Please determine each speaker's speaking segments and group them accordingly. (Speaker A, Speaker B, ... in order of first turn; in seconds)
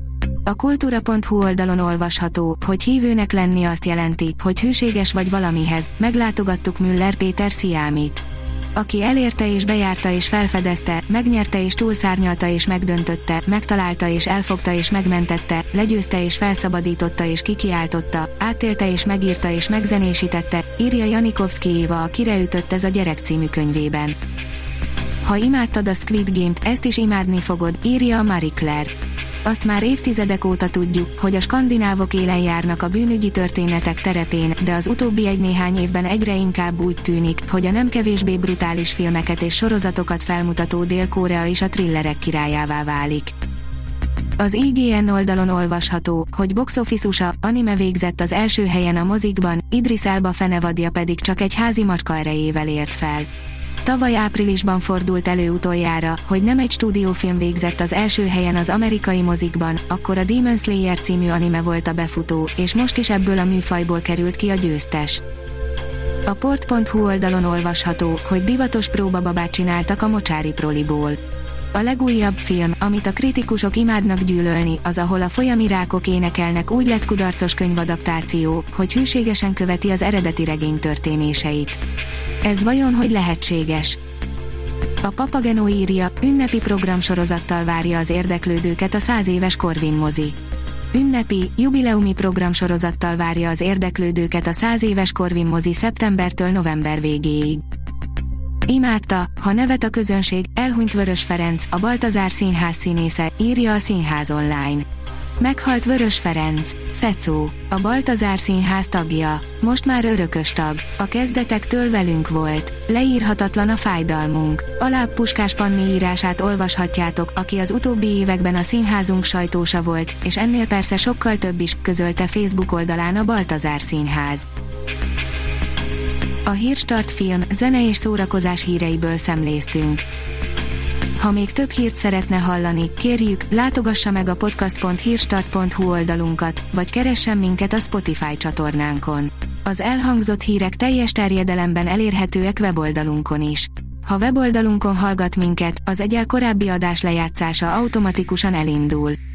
Speaker A: 0.5-8.2, 8.8-24.2, 25.2-28.9, 29.4-43.3, 44.4-53.3, 53.8-65.2, 66.2-71.2, 71.7-81.8, 82.4-84.0, 85.0-90.3, 90.9-97.6, 98.7-104.8, 105.4-124.5, 126.5-130.0, 131.2-149.2